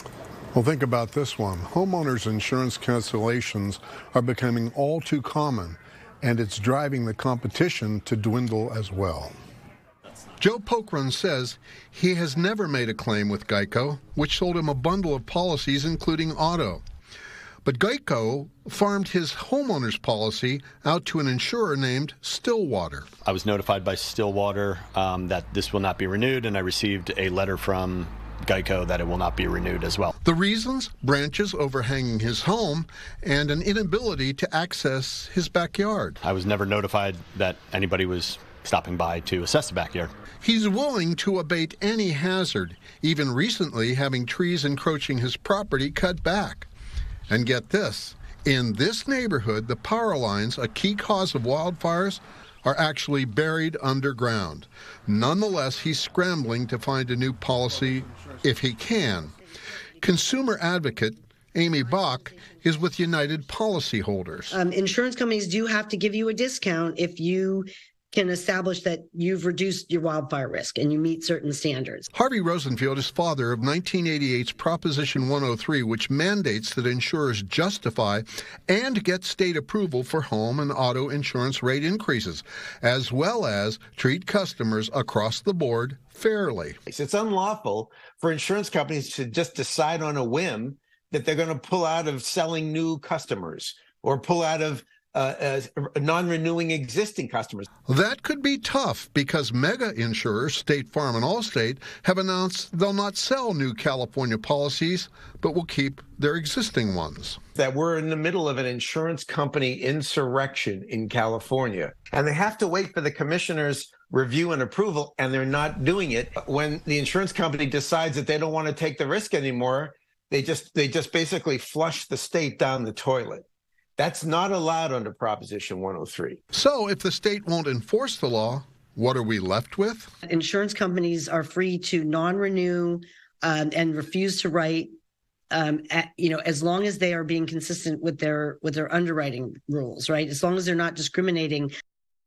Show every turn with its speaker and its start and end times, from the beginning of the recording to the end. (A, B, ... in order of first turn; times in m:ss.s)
0:00.5-0:09.4 A
0:10.4-0:16.8 A
0:17.6-0:23.1 A
0:23.2-0:30.1 B
0:30.2-0:36.2 A
0:36.2-0:40.1 B
0:40.4-0:46.7 A
0:47.3-0:59.3 A
1:00.0-1:04.6 A
1:04.5-1:12.1 C
1:12.1-1:26.8 A
1:26.9-1:37.7 D
1:37.9-1:47.4 A
1:47.6-2:03.4 D
2:04.0-2:06.4 D
2:06.5-2:10.1 A
2:10.3-2:14.9 C
2:15.5-2:21.7 C